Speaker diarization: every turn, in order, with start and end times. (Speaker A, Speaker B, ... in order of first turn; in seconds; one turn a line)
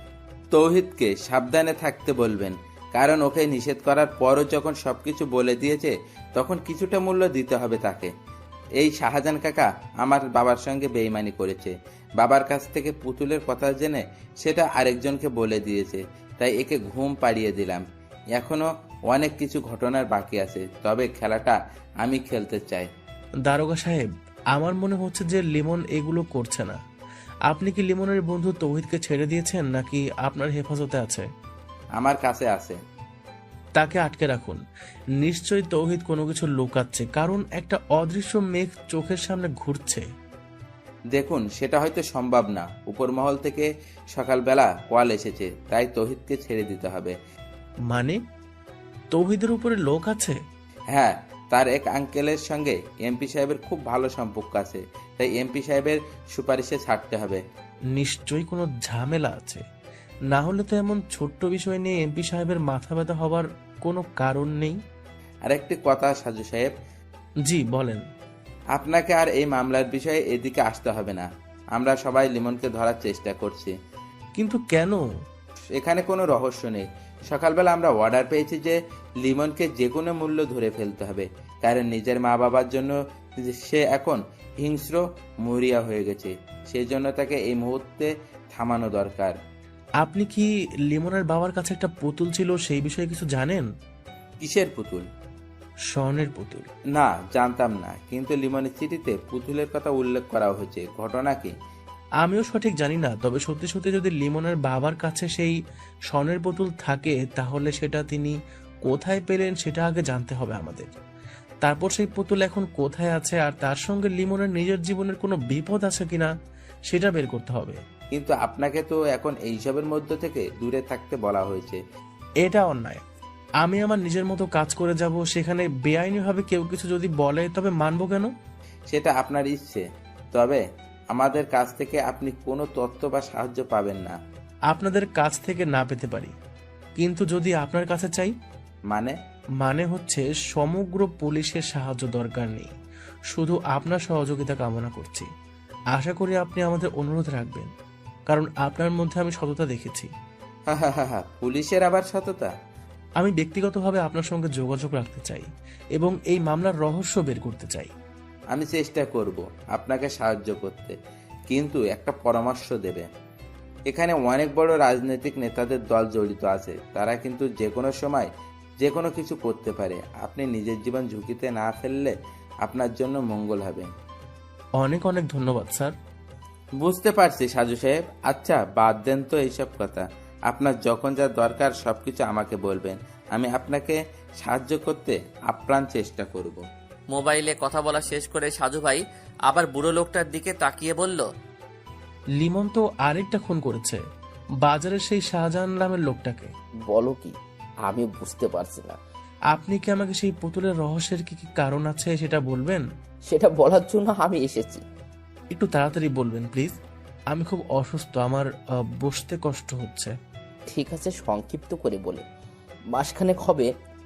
Speaker A: 0.5-8.1
Speaker A: 8.8-17.8
Speaker A: 18.4-22.9
Speaker B: 23.5-26.8
Speaker B: 27.5-31.3
Speaker A: 32.0-32.8
Speaker B: 33.8-34.6
Speaker B: 35.2-40.0
Speaker A: 41.1-47.1
Speaker B: 47.9-48.2
Speaker B: 49.1-50.4
Speaker A: 51.0-57.4
Speaker B: 58.0-59.6
Speaker B: 60.3-64.8
Speaker A: 65.5-66.7
Speaker B: 67.5-68.0
Speaker A: 68.8-73.7
Speaker B: 74.4-75.0
Speaker A: 75.8-82.9
Speaker A: 83.5-89.3
Speaker B: 90.0-93.7
Speaker A: 94.4-95.1
Speaker B: 95.9-96.7
Speaker A: 97.0-101.5
Speaker B: 102.2-105.6
Speaker B: 106.1-110.9
Speaker B: 111.6-116.3
Speaker B: 116.9-117.8
Speaker A: 118.1-121.8
Speaker B: 122.4-123.0
Speaker B: 123.6-128.3
Speaker A: 128.9-129.8
Speaker A: 130.3-130.6
Speaker A: 131.1-134.2
Speaker B: 134.7-136.3
Speaker B: 137.0-138.3
Speaker B: 139.6-142.7
Speaker B: 143.3-145.3
Speaker B: 145.9-147.7
Speaker B: 148.3-150.1
Speaker A: 150.8-152.5
Speaker B: 153.2-157.9
Speaker A: 158.6-160.9
Speaker A: 161.5-163.1
Speaker A: 163.9-168.3
Speaker A: 168.8-172.1
Speaker A: 172.7-173.9
Speaker B: 174.8-175.9
Speaker A: 176.8-186.6
Speaker C: 187.1-191.3
Speaker B: 192.4-194.0
Speaker B: 194.6-196.5
Speaker D: 196.9-197.3
Speaker D: 197.9-199.0
Speaker B: 199.5-202.8
Speaker D: 203.3-204.8
Speaker B: 205.5-206.8
Speaker B: 207.3-210.1
Speaker D: 210.7-212.2
Speaker D: 212.9-213.7